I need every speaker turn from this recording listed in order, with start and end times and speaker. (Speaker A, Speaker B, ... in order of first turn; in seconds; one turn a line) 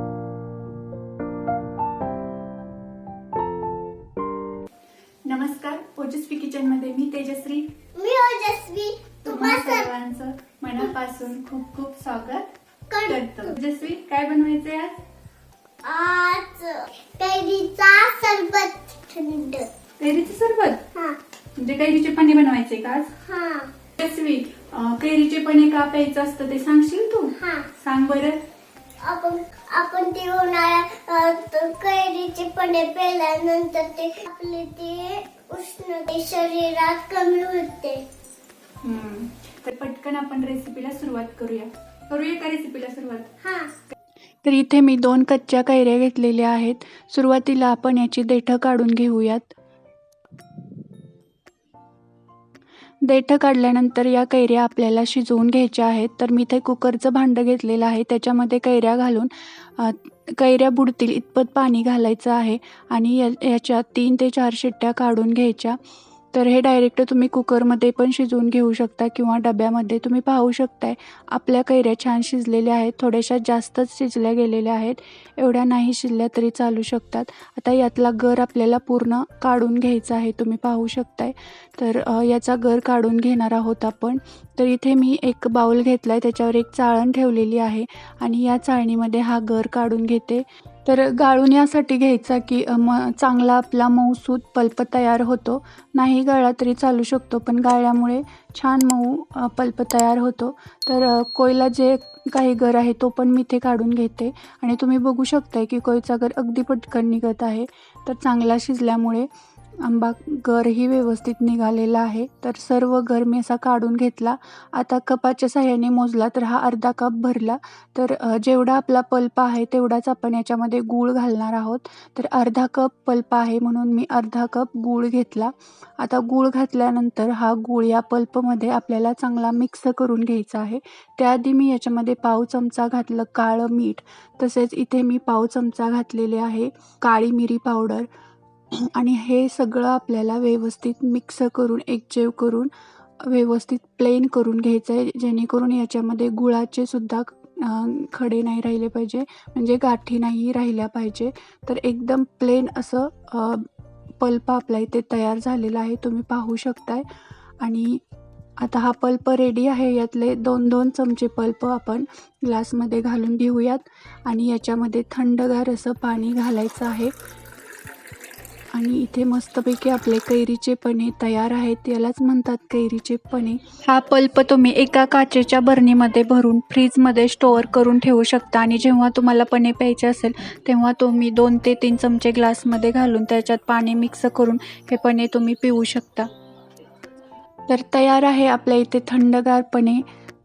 Speaker A: 5.2-7.7
Speaker B: 7.9-9.9
Speaker A: 9.2-12.5
Speaker B: 12.9-13.6
Speaker A: 13.1-15.0
Speaker B: 15.8-19.7
Speaker A: 20.0-20.8
Speaker A: 21.6-23.1
Speaker B: 23.2-23.7
Speaker A: 24.0-28.4
Speaker B: 27.3-27.7
Speaker B: 29.0-38.0
Speaker A: 38.8-43.3
Speaker B: 43.4-43.7
Speaker A: 44.4-49.5
Speaker A: 53.0-65.8
Speaker A: 66.3-109.3
Speaker A: 109.8-138.1
Speaker A: 138.7-157.0
Speaker A: 157.6-158.0
Speaker A: 158.6-167.1
Speaker A: 168.7-186.3
Speaker A: 187.7-190.0